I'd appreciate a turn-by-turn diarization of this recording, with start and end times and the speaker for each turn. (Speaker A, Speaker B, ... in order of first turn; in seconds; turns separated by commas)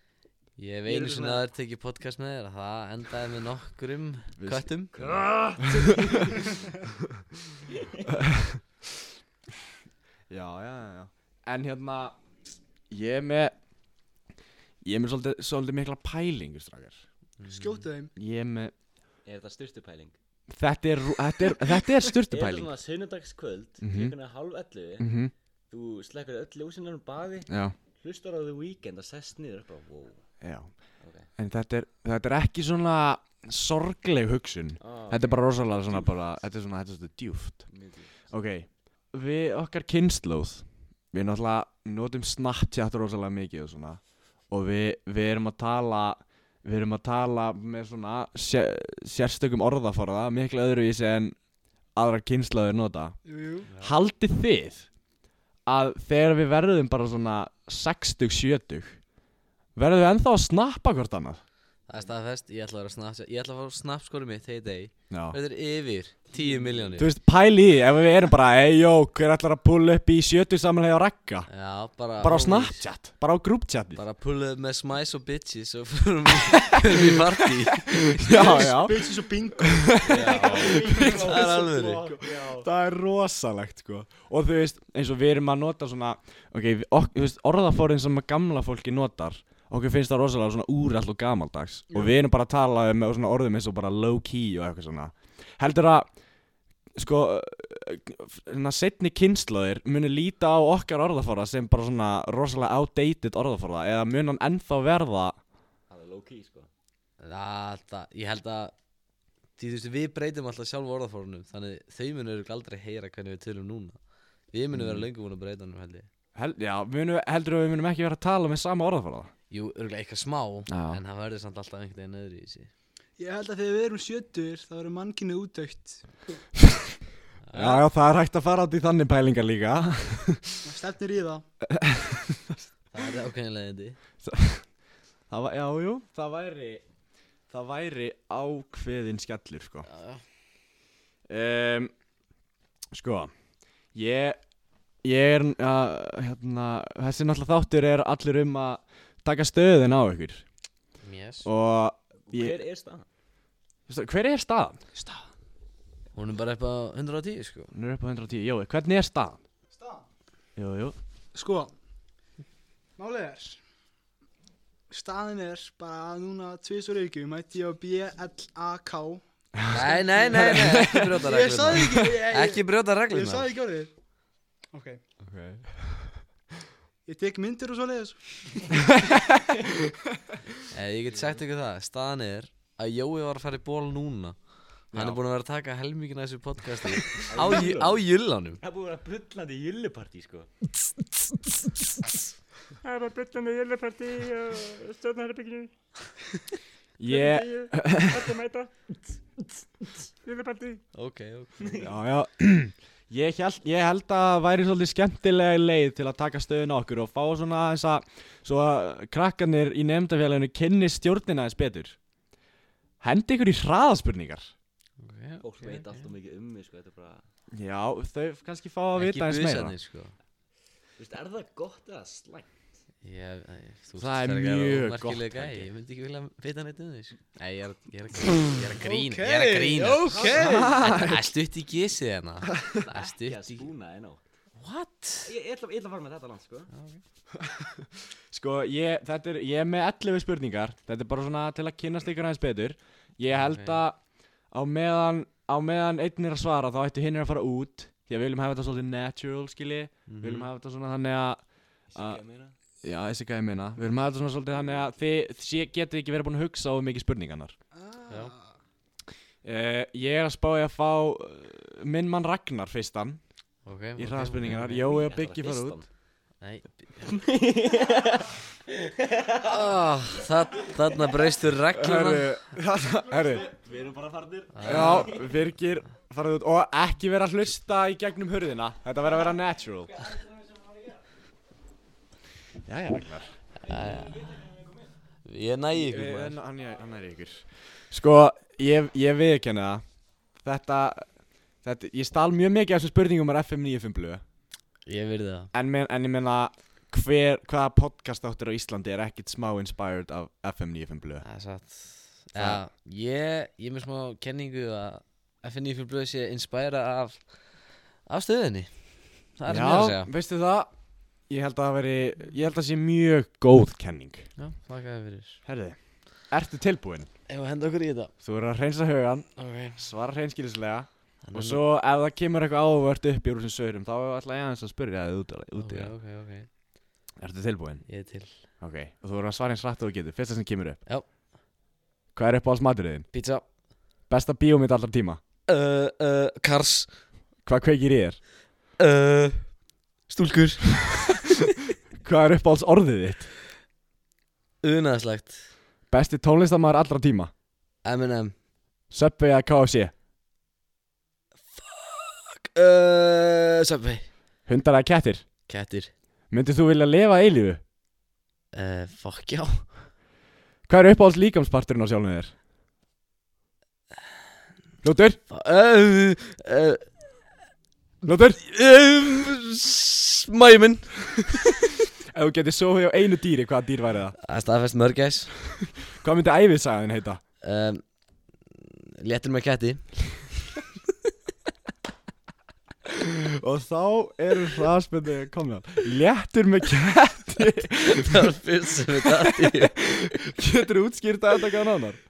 Speaker A: 0.6-4.9, Speaker B: 0.8-1.4, Speaker C: 4.4-5.1, Speaker B: 4.9-6.6, Speaker C: 5.6-6.4, Speaker C: 7.0-7.6, Speaker B: 7.7-8.1, Speaker C: 8.2-8.6, Speaker C: 10.3-12.2, Speaker C: 12.9-13.5, Speaker C: 14.8-17.0, Speaker A: 17.4-17.8, Speaker D: 17.5-18.1, Speaker C: 18.2-18.7, Speaker B: 19.2-20.1, Speaker C: 20.5-22.7, Speaker B: 22.3-25.1, Speaker C: 23.8-24.1, Speaker C: 25.0-25.3, Speaker B: 25.7-27.5, Speaker C: 27.5-27.7, Speaker B: 28.0-30.2, Speaker C: 30.4-30.7, Speaker B: 31.0-31.3, Speaker C: 31.4-37.7, Speaker B: 34.8-36.1, Speaker B: 37.7-38.2, Speaker C: 38.3-51.4, Speaker C: 51.9-53.2, Speaker D: 53.2-53.7, Speaker B: 53.6-53.9, Speaker C: 53.8-54.9, Speaker C: 55.6-59.0, Speaker C: 59.8-61.4, Speaker A: 61.9-67.1, Speaker C: 65.1-65.4, Speaker B: 66.3-67.0, Speaker C: 67.0-71.5, Speaker A: 71.5-72.8, Speaker C: 72.2-74.0, Speaker A: 74.0-78.2, Speaker C: 77.9-81.3, Speaker D: 78.2-81.4, Speaker B: 80.0-82.7, Speaker A: 80.1-82.1, Speaker C: 82.4-96.1, Speaker C: 96.9-105.4, Speaker B: 105.9-106.7, Speaker A: 107.2-108.7, Speaker A: 109.6-114.0, Speaker A: 114.5-116.1, Speaker C: 114.7-115.0, Speaker C: 116.3-119.3, Speaker A: 119.5-122.7, Speaker C: 120.7-121.0, Speaker D: 123.2-126.0, Speaker C: 126.6-126.9, Speaker A: 127.5-127.8, Speaker C: 127.5-130.7, Speaker D: 130.6-131.4, Speaker C: 131.7-132.6, Speaker A: 132.9-134.0, Speaker C: 134.2-134.7, Speaker C: 135.3-136.8, Speaker C: 137.5-139.9, Speaker A: 139.9-140.2, Speaker C: 141.3-141.9, Speaker C: 142.9-143.3, Speaker C: 143.9-144.4, Speaker C: 145.0-150.4, Speaker A: 151.0-151.5, Speaker C: 151.4-152.6, Speaker B: 152.2-153.1, Speaker C: 153.9-154.8, Speaker D: 154.9-155.2, Speaker A: 156.1-157.7, Speaker C: 157.7-159.4, Speaker D: 159.7-160.1, Speaker C: 160.6-160.9, Speaker D: 161.3-161.7, Speaker D: 163.0-163.6, Speaker D: 164.9-173.9, Speaker C: 169.6-171.2, Speaker A: 169.7-173.5, Speaker D: 174.7-175.0, Speaker C: 175.2-176.2, Speaker D: 177.1-178.9, Speaker C: 178.8-179.4, Speaker A: 180.7-184.4, Speaker A: 184.9-188.6, Speaker C: 184.9-185.2, Speaker B: 187.2-188.0, Speaker B: 188.6-190.5, Speaker E: 192.9-195.7, Speaker B: 194.5-195.5, Speaker C: 197.0-198.3, Speaker E: 198.3-198.7, Speaker E: 200.3-200.8, Speaker A: 200.9-201.8, Speaker C: 201.8-212.0, Speaker C: 213.0-214.5, Speaker A: 215.0-216.1, Speaker B: 215.4-217.2, Speaker C: 217.5-219.7, Speaker A: 218.9-220.2, Speaker B: 221.0-222.5, Speaker A: 223.0-233.7, Speaker C: 224.0-225.7, Speaker D: 228.8-230.8, Speaker B: 230.0-230.7, Speaker C: 230.3-231.2, Speaker B: 232.8-234.2, Speaker A: 234.6-235.3, Speaker B: 235.2-236.7, Speaker A: 236.7-237.0, Speaker C: 237.4-244.0, Speaker A: 243.3-243.8, Speaker C: 244.5-251.4, Speaker A: 250.1-250.5, Speaker B: 251.9-252.5, Speaker C: 251.9-252.2, Speaker C: 252.8-257.5, Speaker D: 257.8-258.4, Speaker A: 258.1-258.3, Speaker C: 259.4-263.2, Speaker A: 263.6-264.9, Speaker C: 264.0-265.8, Speaker B: 264.7-265.9, Speaker A: 266.4-267.2, Speaker B: 267.1-269.5, Speaker A: 269.4-272.4, Speaker C: 271.7-273.5, Speaker B: 273.3-275.3, Speaker A: 274.5-275.1, Speaker C: 274.6-279.9, Speaker C: 282.6-283.4, Speaker A: 283.6-284.4, Speaker B: 283.7-284.8, Speaker A: 285.2-286.4, Speaker C: 285.7-289.8, Speaker C: 290.4-291.1, Speaker C: 291.6-294.2, Speaker A: 294.8-295.5, Speaker C: 295.5-301.2, Speaker A: 301.2-310.1, Speaker C: 302.3-302.6, Speaker C: 309.5-310.7, Speaker C: 311.3-314.3, Speaker A: 314.4-315.4, Speaker C: 315.4-317.1, Speaker A: 317.3-318.1, Speaker C: 318.2-325.9, Speaker A: 319.4-319.8, Speaker A: 321.2-321.6, Speaker A: 325.6-326.5, Speaker C: 327.2-327.9, Speaker A: 327.9-328.3, Speaker C: 328.6-330.8, Speaker C: 332.1-333.1, Speaker A: 333.1-333.4, Speaker C: 334.1-335.2, Speaker A: 335.5-336.9, Speaker C: 337.4-338.2, Speaker A: 338.8-339.6, Speaker A: 340.1-341.4, Speaker C: 342.0-343.3, Speaker A: 344.6-345.4, Speaker C: 345.9-347.3, Speaker A: 347.8-348.4, Speaker C: 348.9-349.9, Speaker A: 351.5-354.1, Speaker C: 354.4-355.2, Speaker A: 355.5-355.9, Speaker C: 356.3-357.6, Speaker A: 358.5-359.9, Speaker C: 360.7-362.3, Speaker C: 364.8-365.2, Speaker A: 365.3-366.9, Speaker C: 368.0-368.4, Speaker A: 368.4-371.5, Speaker C: 372.1-374.2, Speaker A: 374.2-375.3, Speaker C: 376.0-377.2, Speaker A: 377.4-377.8, Speaker A: 378.5-380.2, Speaker C: 383.0-388.3, Speaker A: 387.8-390.0, Speaker C: 389.0-392.0